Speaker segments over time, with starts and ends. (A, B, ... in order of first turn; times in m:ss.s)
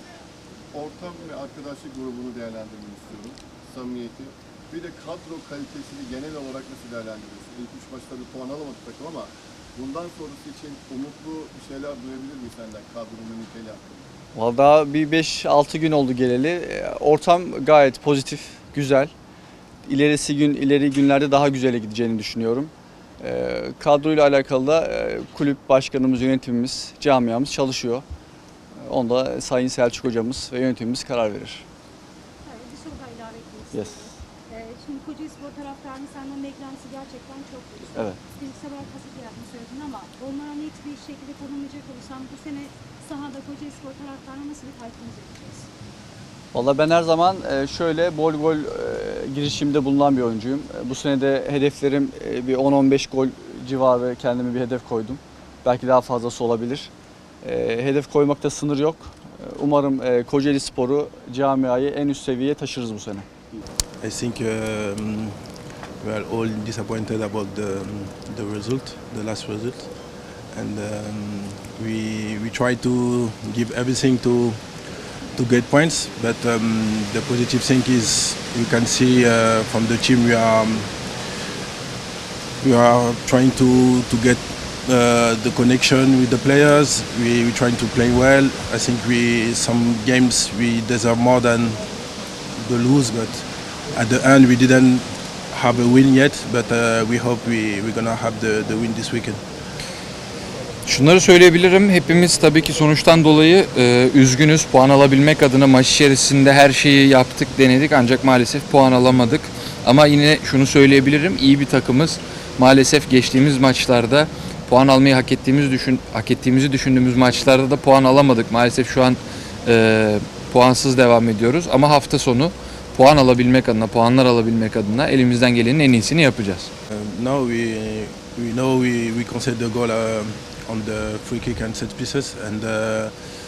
0:00.7-0:14.1 A
0:14.3-0:19.1 B
0:19.8-0:28.0 B
0:28.8-0:31.6 B
0:32.4-0:45.7 C
0:33.7-0:34.1 B
0:46.5-0:56.9 B
0:57.4-1:03.2 B
1:04.0-1:05.4 D
1:06.0-1:09.9 D
1:10.5-1:14.6 D
1:15.3-1:21.0 D
1:22.6-1:31.8 D
1:32.6-1:39.4 D
1:40.8-2:06.7 E
2:06.9-2:13.1 D